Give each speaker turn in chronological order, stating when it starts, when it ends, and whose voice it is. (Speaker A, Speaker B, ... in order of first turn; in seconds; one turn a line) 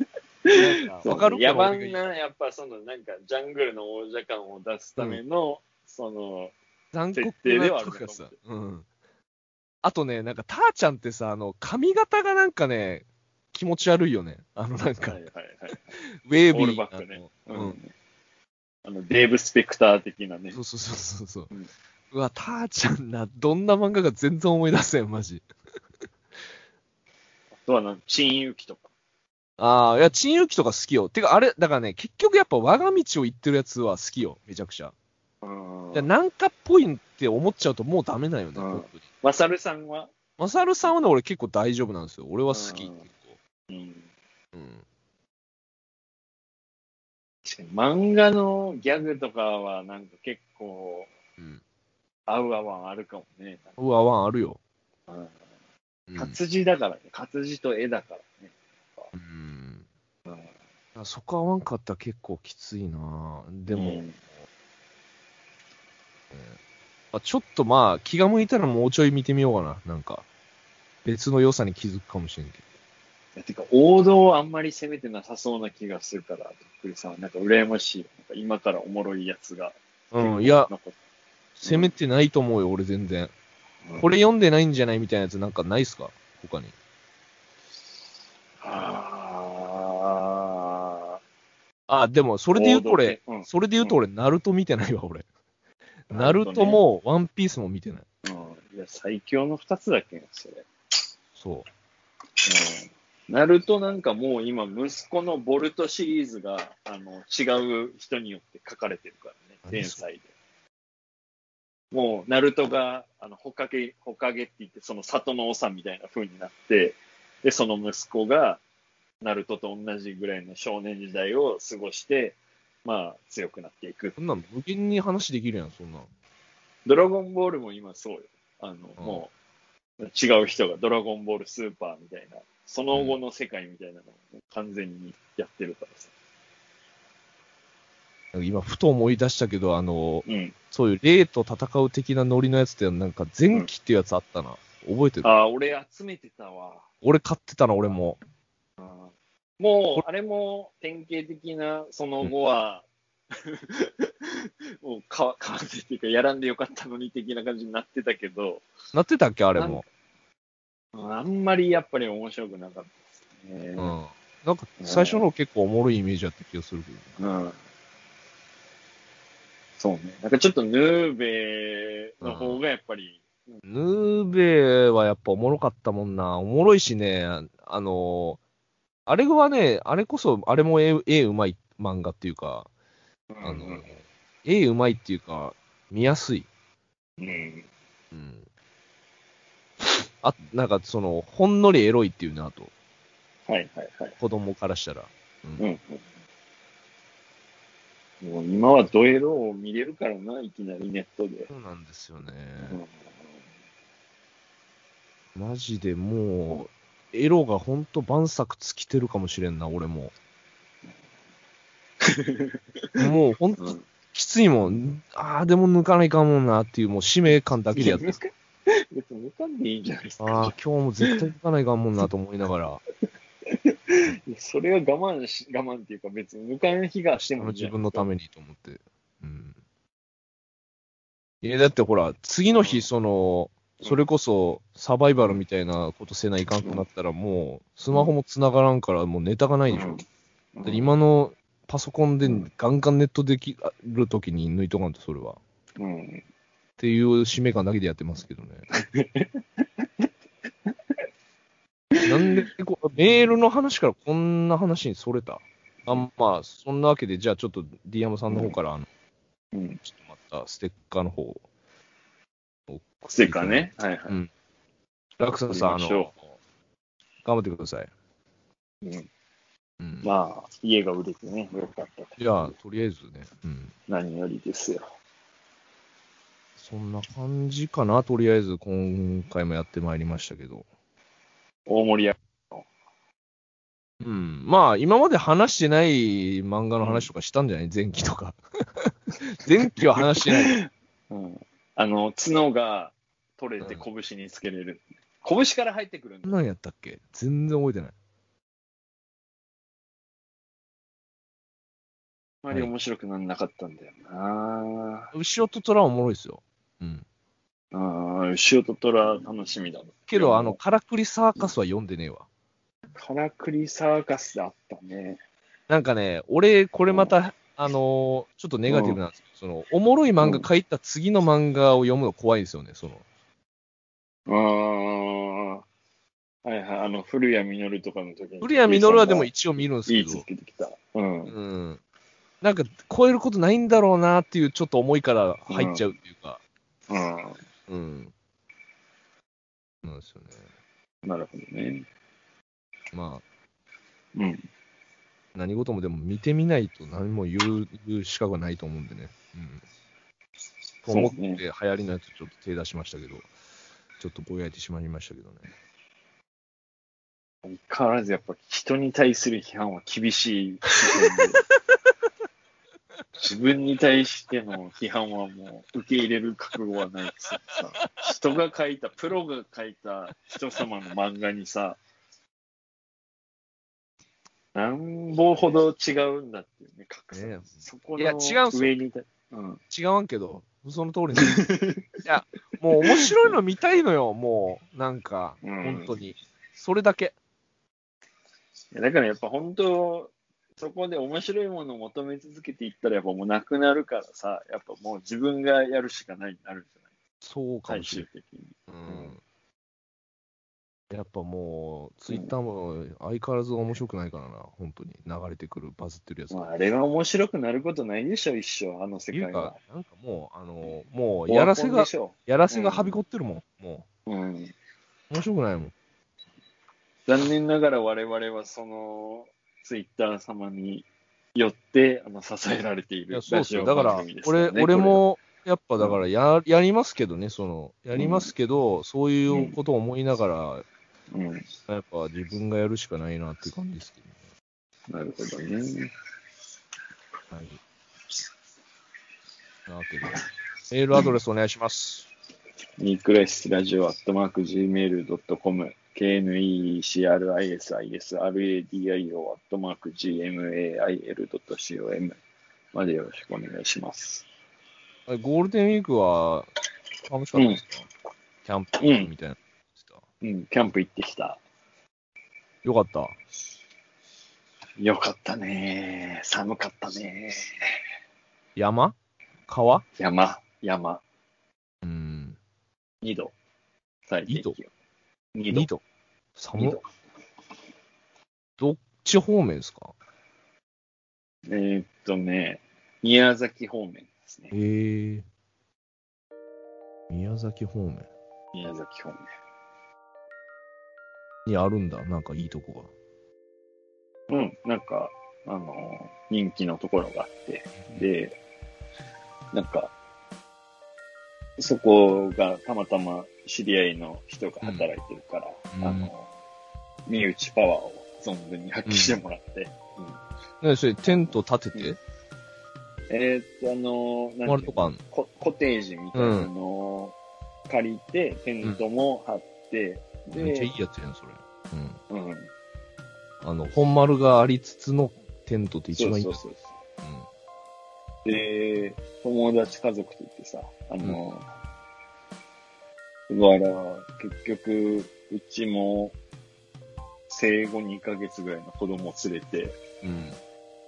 Speaker A: 0.5-6.5
Speaker B: 0.5-2.0
Speaker B: 6.9-8.9
Speaker A: 7.1-8.4
Speaker B: 9.8-15.2
Speaker A: 15.1-15.9
Speaker B: 16.2-17.8
Speaker A: 16.5-17.9
Speaker A: 18.9-20.6
Speaker B: 20.5-21.5
Speaker B: 22.1-25.4
Speaker A: 27.6-28.9
Speaker B: 29.6-34.9
Speaker A: 35.4-36.1
Speaker B: 35.9-39.0
Speaker A: 38.5-40.1
Speaker B: 40.4-43.4
Speaker A: 42.5-43.1
Speaker A: 43.7-44.1
Speaker B: 44.5-44.8
Speaker A: 47.5-51.1
Speaker A: 52.3-53.8
Speaker B: 53.8-54.6
Speaker B: 56.1-56.4
Speaker A: 56.2-59.1
Speaker B: 59.1-59.9
Speaker B: 61.0-64.0
Speaker A: 63.7-64.1
Speaker B: 66.3-66.6
Speaker B: 67.1-70.2
Speaker B: 71.0-72.6
Speaker A: 73.4-81.0
Speaker B: 80.1-80.7
Speaker B: 81.6-83.3
Speaker A: 81.6-81.9
Speaker B: 84.0-86.7
Speaker A: 88.6-91.2
Speaker B: 91.9-95.2
Speaker A: 92.5-94.0
Speaker B: 96.1-98.0
Speaker A: 96.1-96.8
Speaker A: 98.2-100.7
Speaker B: 101.4-101.7
Speaker A: 102.5-110.3
Speaker B: 109.7-110.0
Speaker A: 111.9-118.6
Speaker A: 119.2-124.2
Speaker B: 124.2-126.1
Speaker A: 126.9-129.3
Speaker B: 129.0-129.2
Speaker A: 130.0-136.1
Speaker B: 132.9-133.2
Speaker B: 138.3-145.3
Speaker A: 140.2-140.5
Speaker A: 145.2-146.9
Speaker B: 147.0-148.2
Speaker A: 148.8-158.6
Speaker B: 158.9-159.8
Speaker A: 159.5-159.8
Speaker A: 160.9-163.9
Speaker B: 163.8-167.2
Speaker A: 164.8-165.2
Speaker A: 167.2-167.6
Speaker A: 169.8-173.6
Speaker B: 172.2-172.6
Speaker B: 173.6-178.4
Speaker B: 179.1-182.7
Speaker A: 183.3-183.9
Speaker B: 183.4-186.5
Speaker A: 187.2-187.7
Speaker B: 188.1-188.5
Speaker B: 190.2-192.7
Speaker A: 193.5-194.1
Speaker B: 194.2-195.7
Speaker A: 195.6-196.0
Speaker A: 198.2-201.5
Speaker B: 201.5-202.8
Speaker A: 202.6-202.9
Speaker B: 205.3-210.1
Speaker A: 212.0-213.0
Speaker B: 213.0-218.2
Speaker A: 213.6-213.9
Speaker A: 217.7-218.2
Speaker A: 218.9-221.2
Speaker B: 220.2-222.8
Speaker A: 223.5-228.1
Speaker B: 227.2-229.6
Speaker B: 231.4-240.0
Speaker A: 232.5-232.9
Speaker A: 239.7-240.0
Speaker A: 240.5-240.9
Speaker B: 240.6-245.4
Speaker A: 245.8-246.2
Speaker B: 246.8-248.7
Speaker A: 248.8-250.1
Speaker A: 251.9-252.5
Speaker B: 252.0-258.9
Speaker A: 258.3-258.6
Speaker A: 259.5-259.8
Speaker B: 259.9-261.4
Speaker B: 262.7-264.3
Speaker A: 263.1-264.2
Speaker B: 265.2-266.2
Speaker A: 265.5-266.1
Speaker B: 267.2-267.9
Speaker A: 268.8-269.1
Speaker B: 269.8-270.1
Speaker A: 270.0-272.5
Speaker B: 272.2-273.7
Speaker A: 273.9-274.9
Speaker B: 276.6-280.6
Speaker A: 281.7-282.6
Speaker B: 284.0-290.6
Speaker A: 286.8-287.1
Speaker A: 289.6-296.4
Speaker B: 296.2-297.9
Speaker A: 302.4-305.1
Speaker B: 305.1-307.0
Speaker A: 307.7-310.6
Speaker B: 310.1-312.2
Speaker A: 312.9-315.2
Speaker B: 315.7-323.0
Speaker A: 316.9-317.1
Speaker A: 318.7-319.0
Speaker A: 320.2-320.4
Speaker A: 324.3-325.6
Speaker A: 326.4-329.3
Speaker B: 328.4-330.2
Speaker A: 329.9-331.3
Speaker B: 331.3-331.8
Speaker B: 332.4-336.4
Speaker A: 335.5-335.9
Speaker A: 336.9-337.4
Speaker B: 337.7-338.1
Speaker B: 339.8-340.4
Speaker A: 341.0-341.9
Speaker B: 342.9-343.2
Speaker A: 344.1-344.4
Speaker B: 345.4-349.6
Speaker B: 350.9-353.3
Speaker A: 350.9-351.4
Speaker B: 354.0-355.5
Speaker A: 357.4-361.4
Speaker B: 360.9-361.2
Speaker A: 363.1-371.8
Speaker A: 374.5-379.6
Speaker B: 377.1-378.7
Speaker B: 379.7-381.4
Speaker A: 381.1-382.0
Speaker B: 382.0-387.1
Speaker A: 382.8-383.4
Speaker A: 385.4-385.9
Speaker A: 388.7-396.7
Speaker B: 397.2-398.1
Speaker A: 397.7-399.2
Speaker B: 398.7-399.2
Speaker B: 400.9-406.4
Speaker A: 406.3-409.6
Speaker B: 409.1-413.9
Speaker A: 411.3-412.9
Speaker A: 414.1-414.5
Speaker B: 415.1-415.7
Speaker A: 417.1-425.0
Speaker B: 423.1-430.6
Speaker A: 427.9-428.3
Speaker A: 429.3-429.6
Speaker A: 431.1-431.5
Speaker B: 431.7-434.1
Speaker A: 434.9-435.9
Speaker B: 437.3-437.6
Speaker B: 439.7-442.1
Speaker A: 442.8-452.2
Speaker A: 452.7-454.2
Speaker B: 455.1-456.5
Speaker B: 457.1-457.9
Speaker A: 457.4-457.6
Speaker B: 458.4-460.0
Speaker A: 458.8-459.1
Speaker A: 460.2-461.4
Speaker B: 462.6-463.2
Speaker A: 464.8-467.6
Speaker B: 468.6-468.9
Speaker B: 469.5-469.9
Speaker A: 470.0-471.0
Speaker B: 471.8-472.4
Speaker A: 473.0-473.3
Speaker A: 474.1-474.7
Speaker B: 474.2-474.5
Speaker A: 475.4-475.7
Speaker B: 475.5-475.8
Speaker B: 476.4-476.8
Speaker A: 476.6-476.9
Speaker B: 478.6-479.9
Speaker A: 481.5-484.5
Speaker B: 484.5-485.2
Speaker B: 487.1-488.1
Speaker A: 488.5-489.2
Speaker B: 491.4-492.9
Speaker A: 494.3-498.4
Speaker A: 499.5-499.9
Speaker A: 501.6-506.3
Speaker B: 504.6-504.9
Speaker B: 505.7-506.1
Speaker A: 507.1-510.2
Speaker B: 508.9-509.1
Speaker B: 510.6-512.0
Speaker A: 511.0-511.9
Speaker A: 513.1-517.1
Speaker B: 514.5-515.0
Speaker B: 516.1-516.5
Speaker A: 517.7-520.7
Speaker B: 520.4-522.0
Speaker A: 522.1-522.5
Speaker B: 523.4-526.4
Speaker A: 525.9-526.7
Speaker B: 527.0-527.3
Speaker A: 528.2-531.5
Speaker A: 533.3-536.1
Speaker A: 537.3-539.8
Speaker B: 540.0-540.4